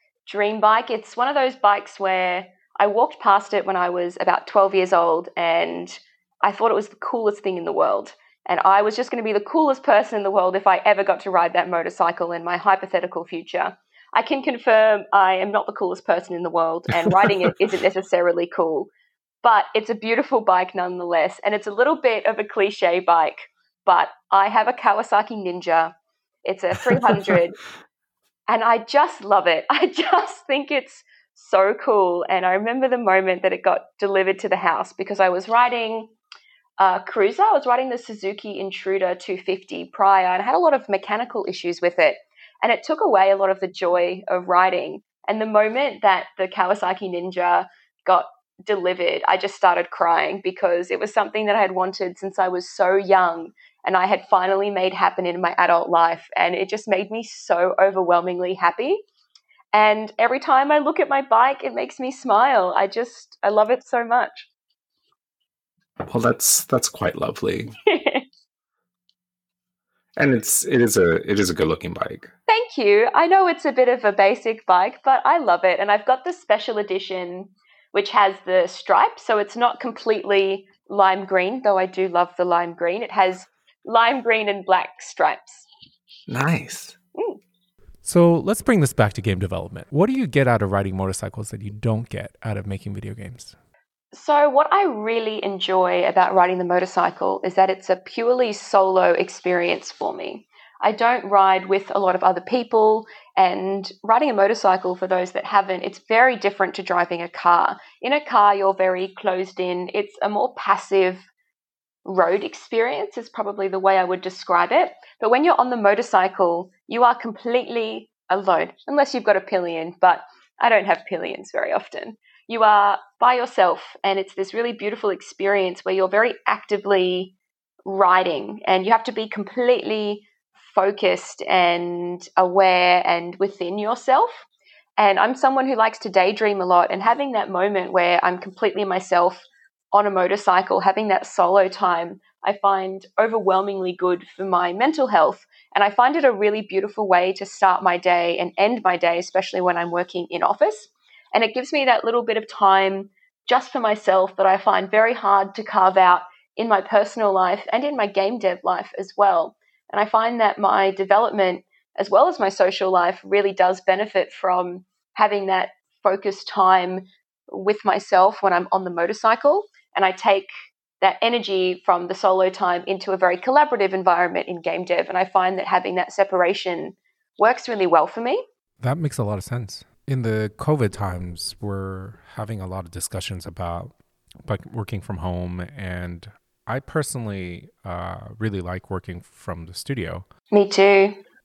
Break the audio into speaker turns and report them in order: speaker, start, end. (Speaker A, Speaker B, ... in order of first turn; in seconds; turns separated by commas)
Speaker A: 0.3-18.9, Speaker B: 17.0-17.5, Speaker A: 19.4-25.9, Speaker A: 26.4-27.6, Speaker B: 26.9-27.4, Speaker A: 28.5-36.1, Speaker A: 36.8-59.0, Speaker A: 59.7-64.5, Speaker B: 66.0-67.7, Speaker A: 67.8-68.2, Speaker B: 70.2-72.3, Speaker A: 72.5-85.7, Speaker B: 86.3-87.0, Speaker C: 88.0-93.5, Speaker A: 94.1-111.3, Speaker A: 112.0-127.3, Speaker A: 127.8-134.4, Speaker A: 135.0-170.5, Speaker A: 171.0-178.4, Speaker C: 178.8-190.2, Speaker A: 190.5-191.2